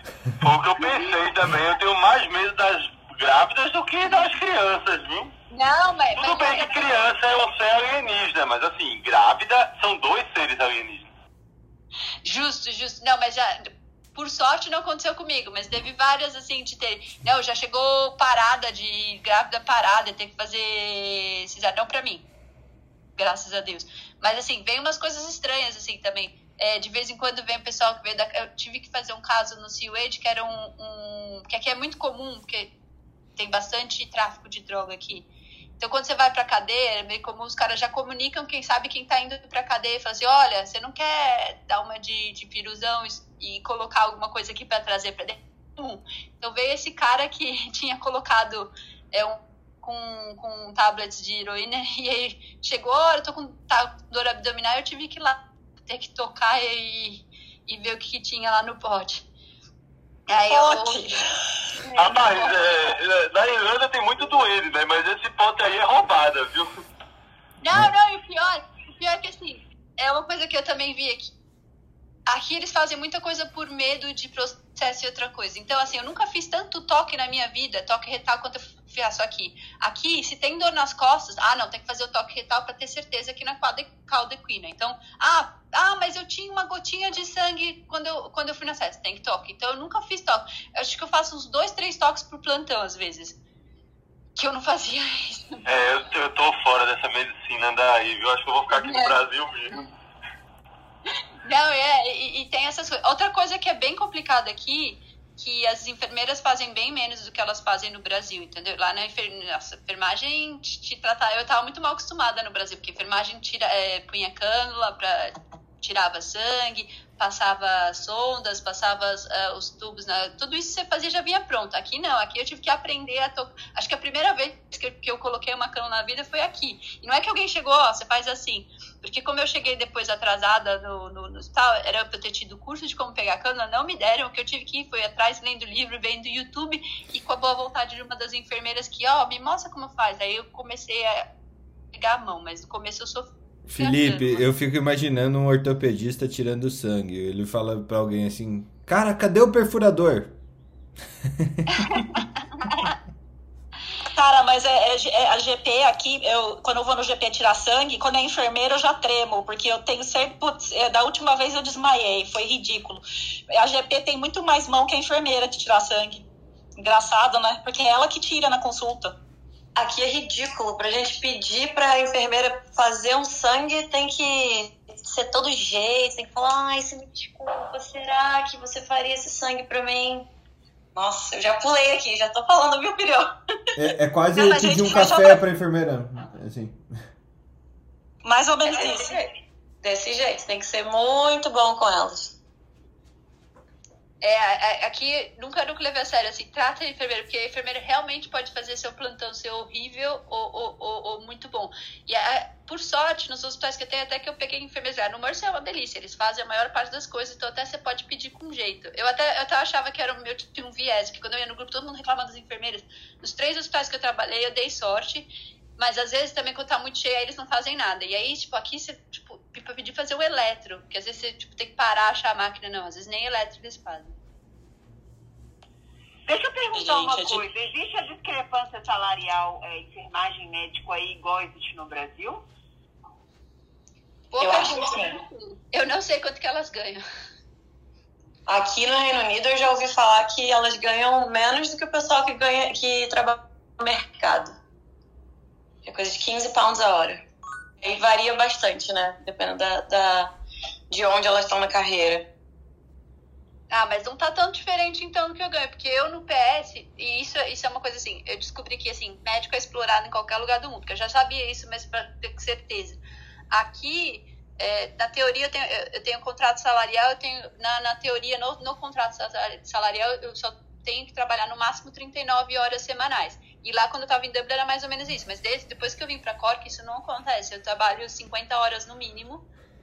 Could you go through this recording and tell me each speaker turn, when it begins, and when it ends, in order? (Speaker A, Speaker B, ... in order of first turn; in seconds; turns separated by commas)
Speaker A: 0.4-5.3, Speaker B: 5.5-7.0, Speaker A: 6.2-11.1, Speaker B: 12.2-22.2, Speaker B: 23.2-32.7, Speaker B: 33.4-35.3, Speaker B: 35.8-59.2, Speaker B: 60.3-61.2, Speaker C: 60.5-61.2, Speaker B: 61.8-62.9, Speaker A: 62.0-66.8, Speaker B: 67.6-71.3, Speaker B: 72.3-93.4, Speaker B: 94.4-95.7, Speaker A: 95.7-99.8, Speaker B: 98.7-99.2, Speaker B: 101.5-141.3, Speaker B: 141.9-144.4, Speaker D: 143.7-150.4, Speaker D: 151.4-151.9, Speaker C: 154.2-163.0, Speaker C: 163.6-166.2, Speaker C: 166.8-169.1, Speaker E: 169.8-180.3, Speaker E: 180.9-183.4, Speaker D: 183.8-186.8, Speaker C: 184.3-185.4, Speaker C: 188.2-189.1, Speaker E: 188.7-189.3, Speaker E: 189.8-192.3, Speaker B: 194.2-224.2, Speaker F: 226.3-232.4, Speaker C: 226.7-227.4, Speaker B: 234.3-237.0, Speaker E: 234.4-235.2, Speaker E: 238.5-244.6, Speaker E: 245.8-247.2, Speaker E: 247.8-250.3, Speaker E: 250.9-252.3, Speaker B: 253.7-263.0, Speaker B: 263.5-279.4